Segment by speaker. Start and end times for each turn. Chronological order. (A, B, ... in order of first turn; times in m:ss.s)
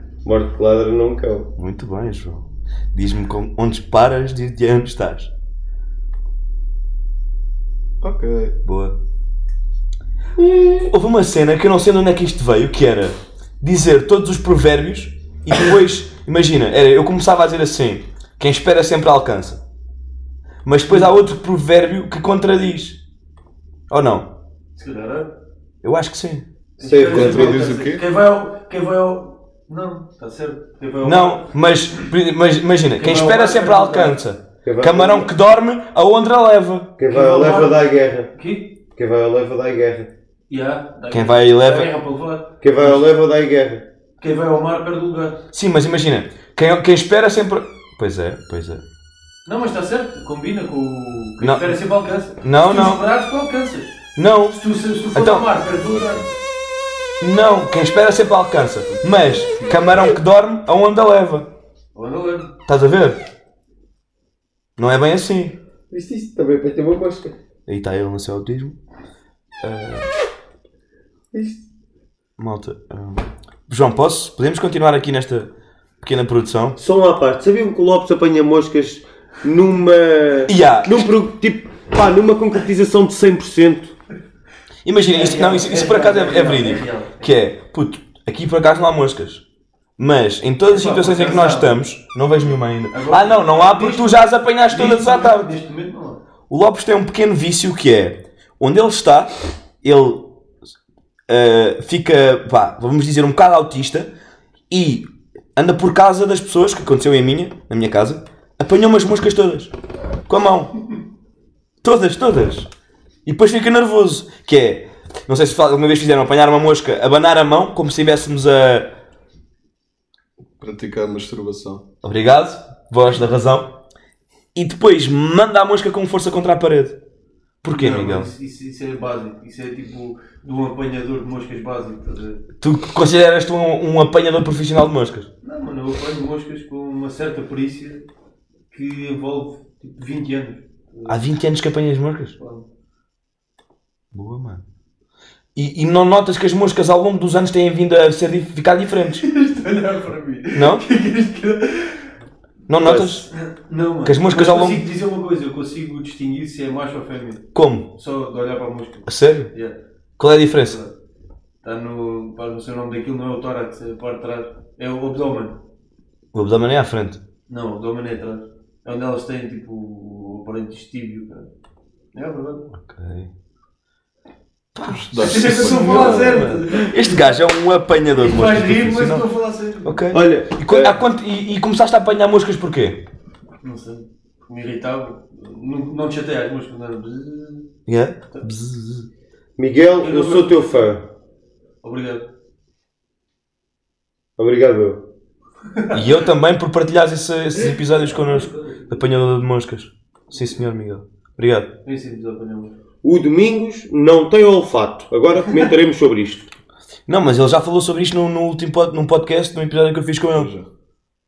0:00.2-0:01.5 A
0:01.6-0:05.3 B
0:08.0-0:08.6 C
0:08.6-0:09.0 B
0:10.4-0:10.9 A
0:10.9-0:19.6 B
0:20.6-0:23.0 B
0:23.9-0:24.3 B
0:24.8-0:25.3 D
0:25.8-0:26.4 B
0:26.8-0:31.5 D
0:26.8-0:27.6 A
0:27.1-0:28.0 C
0:31.0-0:36.9 B
0:33.0-0:34.2 D
0:34.6-0:35.3 A
0:37.0-0:38.3 A
0:37.1-0:37.8 D
0:38.3-0:38.8 D
0:38.9-0:40.1 A
0:40.5-0:43.1 D
0:41.1-0:41.9 B
0:42.6-0:43.9 A
0:44.2-0:45.4 D
0:45.5-0:48.8 B
0:49.5-0:54.0 D
0:51.4-0:51.8 B
0:52.4-0:53.0 B
0:54.2-0:54.6 B
0:54.5-0:56.3 D
0:55.1-0:55.5 B
0:55.7-0:56.3 C
0:57.2-1:01.5 B
1:02.0-1:02.5 D
1:02.7-1:03.2 B
1:04.8-1:05.6 B
1:05.9-1:07.3 A
1:07.7-1:08.8 B
1:09.6-1:10.1 B
1:11.3-1:11.6 A
1:12.4-1:15.5 B
1:16.0-1:16.8 B
1:16.8-1:24.0 A
1:20.5-1:21.1 B
1:24.8-1:29.4 B
1:25.1-1:27.3 D
1:30.0-1:35.5 B
1:30.7-1:31.8 D
1:32.9-1:36.2 D
1:36.5-1:40.3 B
1:41.3-1:44.1 B
1:44.7-1:49.7 B
1:50.3-1:50.8 B
1:51.8-1:52.7 B
1:53.3-1:58.9 B
2:00.6-2:01.8 C
2:02.0-2:03.7 B
2:04.6-2:07.0 B
2:07.6-2:08.3 B
2:07.7-2:12.4 D
2:12.6-2:15.3 B
2:15.4-2:18.0 D
2:18.7-2:21.2 D
2:21.1-2:22.4 B
2:22.4-2:22.7 D
2:24.1-2:24.6 B
2:25.6-2:29.2 B
2:29.2-2:32.1 D
2:30.6-2:30.8 B
2:32.7-2:33.3 B
2:32.8-2:33.2 A
2:33.3-2:39.8 D
2:34.0-2:34.8 B
2:37.5-2:37.9 B
2:39.1-2:39.5 B
2:40.2-2:40.8 B
2:40.6-2:40.9 D
2:41.6-2:45.6 D
2:46.3-2:47.2 B
2:47.5-2:51.5 D
2:52.1-2:52.7 D
2:52.7-2:53.3 B
2:54.8-2:59.3 B
2:54.9-2:56.5 C
2:55.2-2:57.4 D
2:58.2-3:00.0 D
2:59.8-3:03.0 B
3:00.1-3:01.0 A
3:03.6-3:07.7 D
3:07.9-3:09.1 B
3:09.6-3:11.1 A
3:10.0-3:10.7 D
3:11.8-3:12.3 D
3:14.4-3:15.0 A
3:15.7-3:16.0 D
3:15.9-3:21.7 B
3:17.7-3:19.1 D
3:21.8-3:22.7 D
3:23.0-3:26.5 A
3:27.1-3:30.5 B
3:30.3-3:30.7 C